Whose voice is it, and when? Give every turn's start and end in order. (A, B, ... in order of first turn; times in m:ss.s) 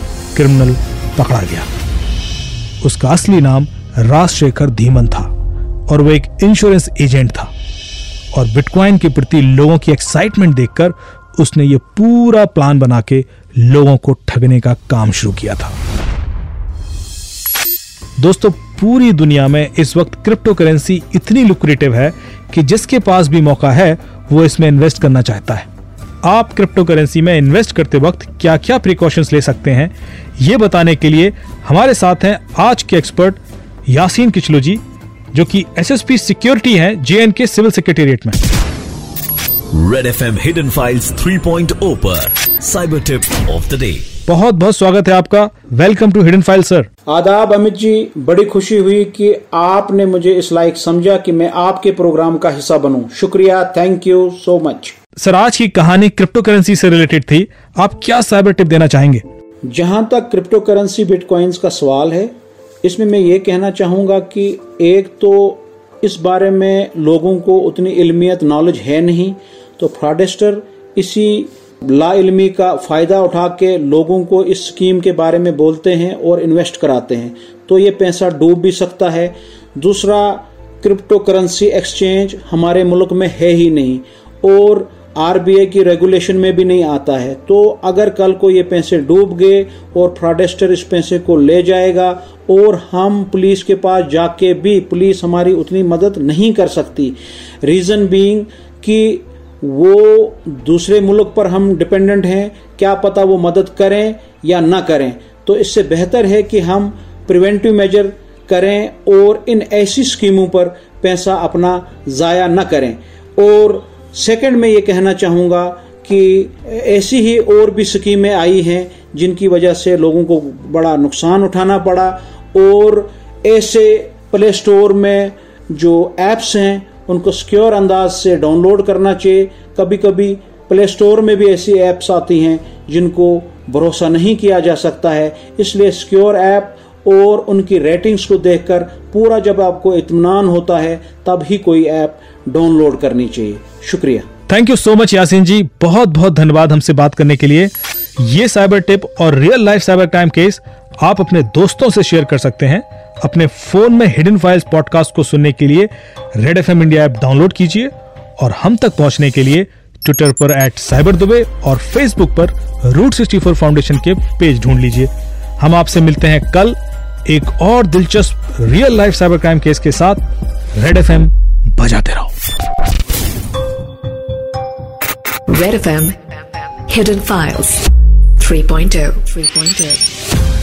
0:00.3-0:01.7 A
0:02.8-0:05.3 A
0:05.9-0:07.5 A
0:08.3-0:15.8 A
0:18.2-0:25.6 A
0:26.2-0:34.8 A
0:35.3-0:38.4 A
0:39.8-0:44.0 B
0:44.2-0:46.9 A
0:47.1-0:54.9 C
0:55.2-0:59.2 A
0:59.7-2:24.2 C
2:24.5-2:50.2 A
2:50.8-2:52.3 A
2:55.5-3:00.1 D